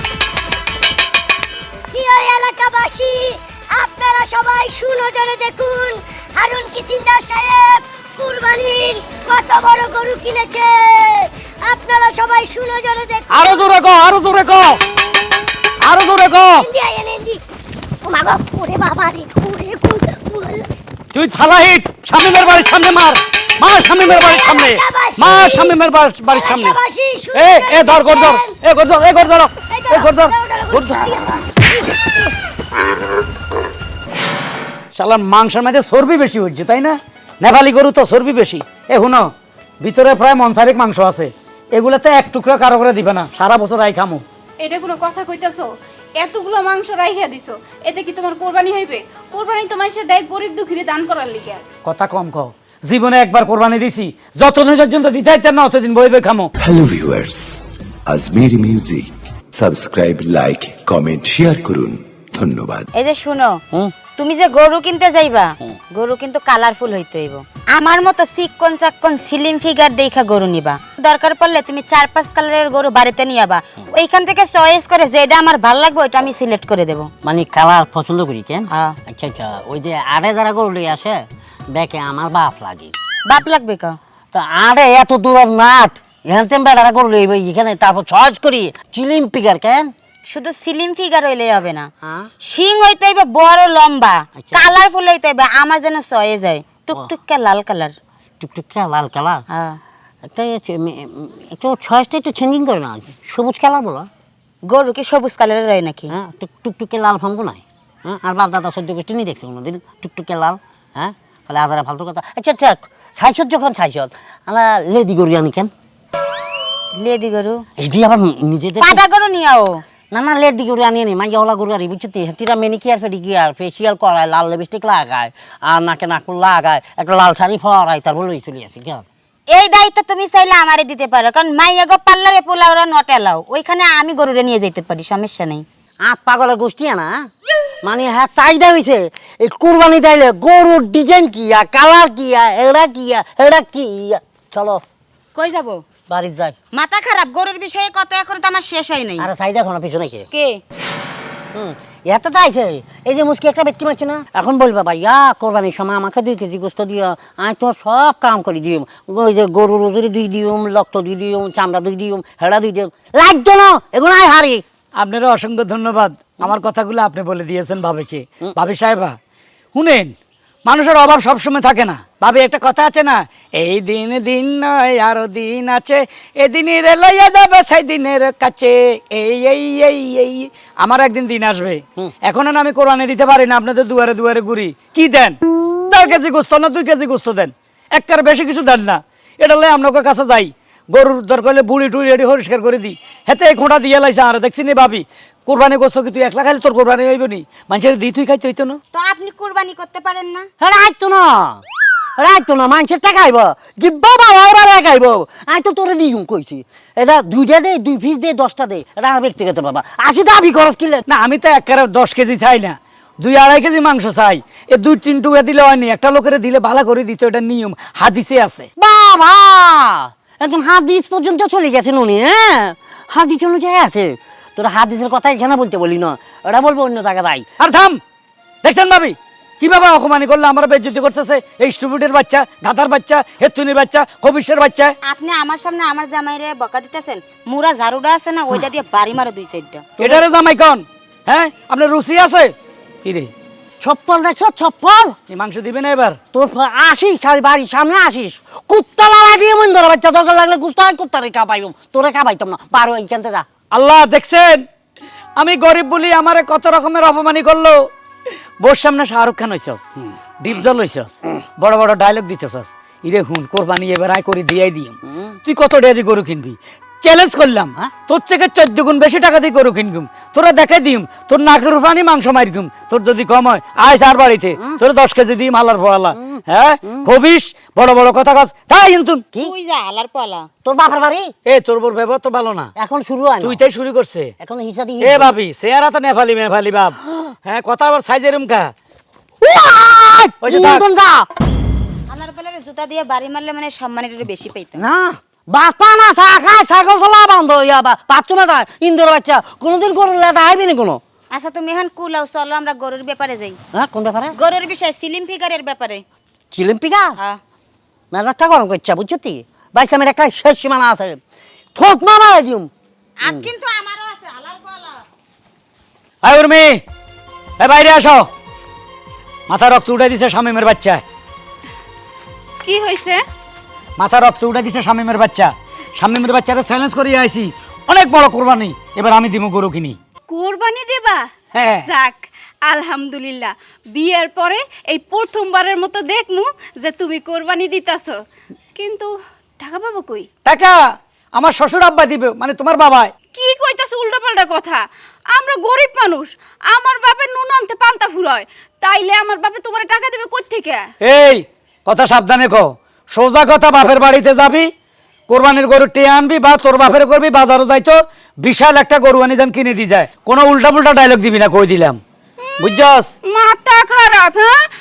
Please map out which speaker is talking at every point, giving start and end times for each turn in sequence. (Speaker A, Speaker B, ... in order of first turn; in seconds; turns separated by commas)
Speaker A: 1.9-13.7, Speaker B: 13.3-14.8, Speaker B: 15.8-16.7, Speaker A: 16.5-17.4, Speaker A: 18.0-20.7, Speaker B: 21.1-26.8, Speaker A: 23.9-25.8, Speaker A: 26.3-28.5, Speaker B: 27.3-31.1, Speaker A: 29.7-32.4, Speaker B: 34.9-39.3, Speaker B: 39.8-44.2, Speaker C: 44.6-51.6, Speaker B: 51.9-56.5, Speaker D: 56.6-62.9, Speaker E: 62.9-63.6, Speaker E: 64.1-77.1, Speaker F: 77.2-82.9, Speaker E: 78.7-79.0, Speaker E: 83.2-84.0, Speaker F: 84.3-89.9, Speaker E: 90.3-91.9, Speaker F: 92.0-92.3, Speaker E: 92.5-97.9, Speaker F: 94.3-94.7, Speaker F: 98.4-99.4, Speaker E: 99.5-99.8, Speaker F: 100.2-104.1, Speaker E: 104.7-106.1, Speaker F: 106.1-115.7, Speaker E: 116.9-117.6, Speaker F: 117.8-119.0, Speaker E: 118.8-119.8, Speaker F: 120.1-129.1, Speaker E: 129.5-135.6, Speaker F: 136.0-137.3, Speaker F: 137.8-144.8, Speaker E: 145.3-145.8, Speaker F: 146.1-146.6, Speaker E: 146.7-149.3, Speaker F: 149.2-150.3, Speaker E: 150.3-150.6, Speaker F: 151.5-164.6, Speaker B: 165.0-169.2, Speaker B: 169.7-170.1, Speaker B: 170.7-185.4, Speaker B: 185.9-198.8, Speaker E: 198.9-200.5, Speaker F: 200.6-201.6, Speaker F: 202.2-211.0, Speaker B: 211.1-218.7, Speaker F: 218.8-227.5, Speaker B: 227.6-228.0, Speaker B: 228.6-234.9, Speaker E: 235.1-240.0, Speaker B: 240.0-243.3, Speaker F: 243.8-245.2, Speaker B: 245.3-246.2, Speaker F: 246.3-253.5, Speaker B: 253.7-254.6, Speaker B: 255.4-257.8, Speaker B: 258.6-259.8, Speaker B: 260.4-279.3, Speaker F: 265.1-265.4, Speaker F: 276.1-277.1, Speaker E: 279.4-280.5, Speaker F: 280.6-281.3, Speaker B: 281.4-282.7, Speaker F: 282.8-283.6, Speaker B: 283.4-284.3, Speaker F: 284.4-285.3, Speaker B: 285.0-288.7, Speaker F: 289.4-291.3, Speaker B: 290.4-290.8, Speaker E: 292.1-294.9, Speaker F: 294.8-301.0, Speaker E: 301.3-303.6, Speaker F: 303.7-304.3, Speaker E: 304.4-306.0, Speaker F: 306.5-307.1, Speaker F: 308.1-311.2, Speaker F: 311.7-312.7, Speaker E: 313.2-315.0, Speaker B: 316.2-316.8, Speaker B: 317.6-318.3, Speaker B: 319.5-321.0, Speaker C: 322.6-323.2, Speaker B: 324.0-330.0, Speaker C: 330.3-331.3, Speaker B: 331.5-331.9, Speaker C: 331.9-338.2, Speaker C: 338.8-340.3, Speaker B: 340.4-340.8, Speaker B: 341.3-343.1, Speaker C: 343.3-350.9, Speaker B: 351.0-354.7, Speaker B: 355.3-362.0, Speaker C: 362.4-364.6, Speaker B: 362.6-363.1